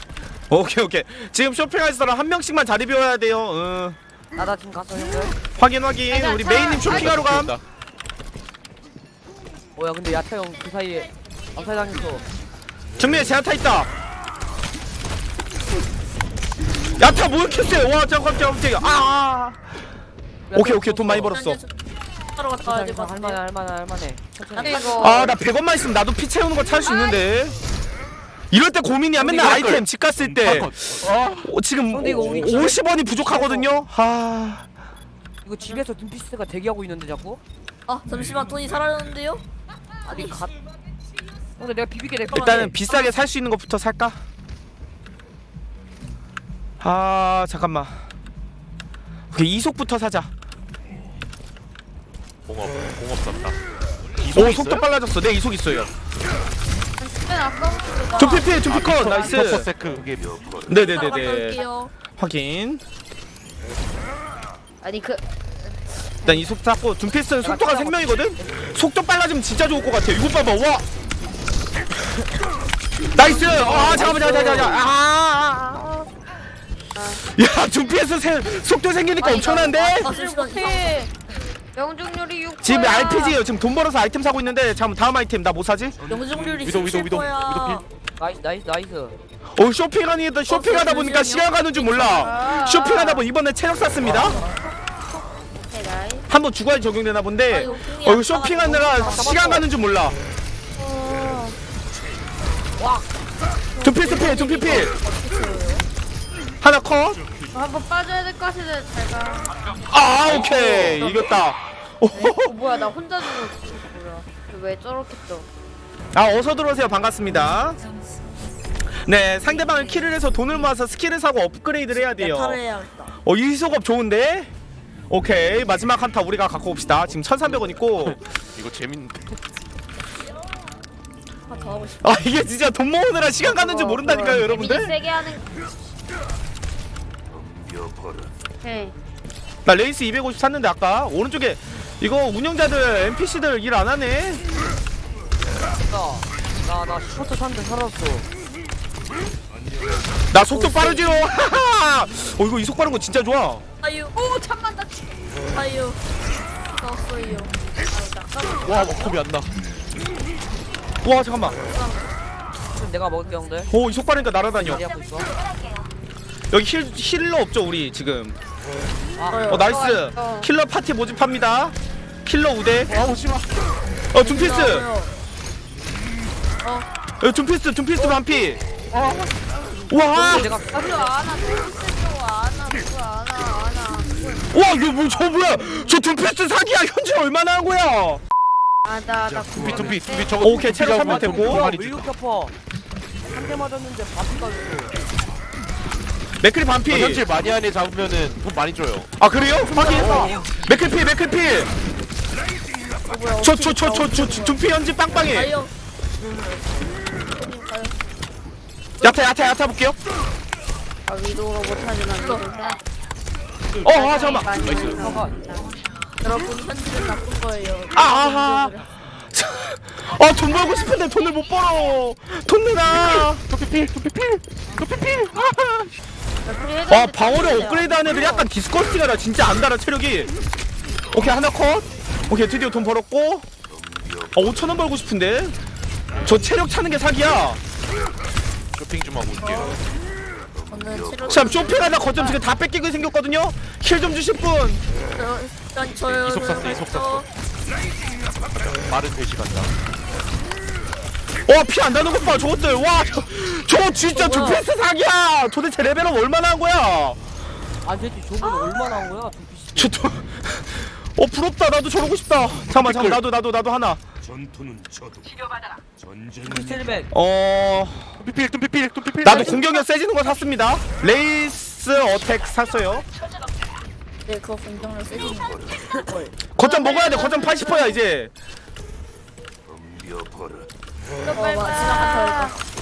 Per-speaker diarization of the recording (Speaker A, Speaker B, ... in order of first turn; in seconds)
Speaker A: 0.5-4.0, 5.6-7.5, 13.0-13.9, 17.0-19.7, 20.5-21.6, 24.9-27.6, 28.5-30.8, 31.4-34.6, 42.3-44.2, 46.8-47.9, 49.3-50.3, 54.3-55.9, 58.1-59.7, 60.7-61.6, 62.2-62.8, 66.2-70.8, 73.2-76.1, 77.2-80.1, 82.6-86.0, 89.6-94.4, 96.3-100.2, 103.8-104.9, 106.6-107.2, 109.9-112.6, 116.1-117.8, 119.0-122.6, 123.2-124.5, 125.1-128.2, 132.0-134.9, 139.7-144.4, 150.3-153.6, 161.0-161.6, 163.7-164.9, 166.5-168.4, 169.5-173.0, 174.1-174.9, 177.2-178.6, 179.9-180.5, 184.5-188.2, 190.4-191.7, 196.4-197.2, 199.2-201.7, 203.4-205.5, 209.0-210.0, 213.8-214.6, 217.9-223.4, 226.9-230.3, 231.1-233.4, 234.3-235.6, 236.2-237.6, 241.3-244.8, 251.5-257.2, 259.8-264.0, 267.1-268.1, 269.2-273.1, 276.6-278.3
Speaker B: 4.3-5.4, 9.8-12.3, 20.5-21.3, 22.6-25.2, 31.9-33.7, 35.4-37.4, 40.0-40.5, 41.6-42.8, 67.4-68.7, 73.3-74.8, 88.2-89.2, 94.0-94.5, 98.8-99.7, 102.8-103.1, 145.8-148.3, 150.5-151.0, 162.7-163.7, 164.6-165.3, 169.2-169.7, 180.1-181.2, 191.0-192.6, 193.3-194.9, 199.6-200.4, 214.9-215.3, 257.8-260.0, 266.4-267.1
Speaker C: 6.1-7.2, 24.6-25.2, 57.0-59.3, 61.2-61.7, 64.8-65.2, 77.0-77.2, 79.2-81.1, 81.8-83.4, 92.1-93.3, 95.4-96.3, 100.8-101.6, 103.8-104.9, 107.5-109.5, 110.2-111.3, 112.1-115.5, 133.5-135.5, 138.6-138.9, 154.5-154.9, 157.8-159.0, 169.4-170.5, 180.7-184.5, 185.4-186.0, 188.8-191.6, 211.1-212.8, 213.7-215.8, 226.5-228.5, 281.2-282.6
Speaker D: 6.9-7.6, 29.2-29.9, 30.4-31.5, 52.5-53.6, 54.2-54.9, 58.6-60.8, 86.6-87.8, 110.2-111.0, 128.0-129.4, 158.6-159.5, 172.9-173.5, 178.9-179.3, 189.5-192.1, 196.9-199.2, 214.5-215.2, 222.9-225.9, 238.7-239.8, 246.0-247.2, 248.9-249.7, 262.7-263.2, 268.2-269.7
Speaker E: 21.2-21.7, 22.4-23.4, 24.6-25.4, 26.9-27.2, 37.9-39.4, 42.3-43.2, 58.1-58.5, 60.7-61.9, 80.0-81.1, 86.1-87.9, 90.5-92.4, 97.5-99.3, 104.0-105.8, 121.9-123.1, 131.5-132.2, 153.8-154.5, 155.4-156.0, 156.7-157.6, 161.1-162.1, 174.2-175.2, 176.6-176.9, 178.0-178.4, 203.1-204.6, 205.2-205.7, 207.3-208.0, 209.0-209.4, 212.2-212.4, 216.2-218.9, 239.4-239.8, 240.7-242.4, 245.1-247.3, 254.1-254.6, 274.3-278.0, 281.4-282.6